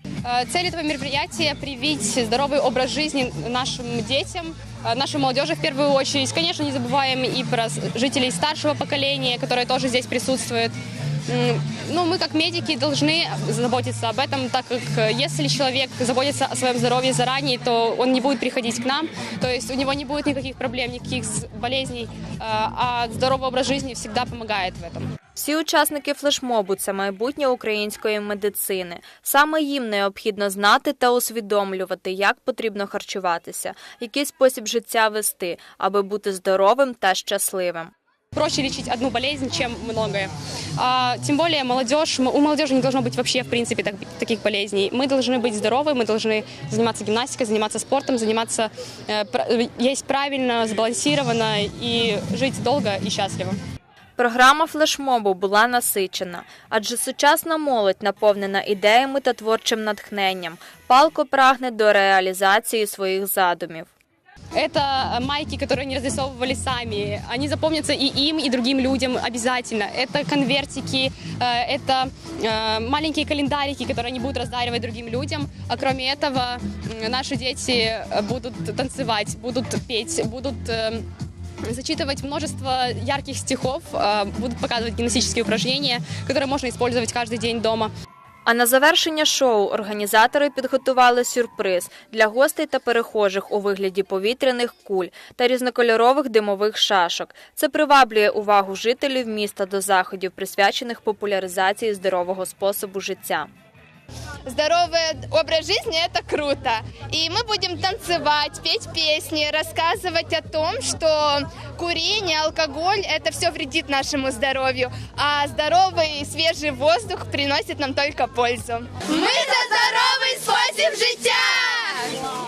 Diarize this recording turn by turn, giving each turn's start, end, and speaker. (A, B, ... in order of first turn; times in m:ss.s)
0:00.2-0:25.2 A
0:25.3-0:37.9 B
0:38.3-0:53.6 A
0:54.2-1:03.9 B
1:04.5-1:21.1 A
1:21.6-1:27.9 A
1:28.4-1:43.5 B
1:44.4-2:02.1 C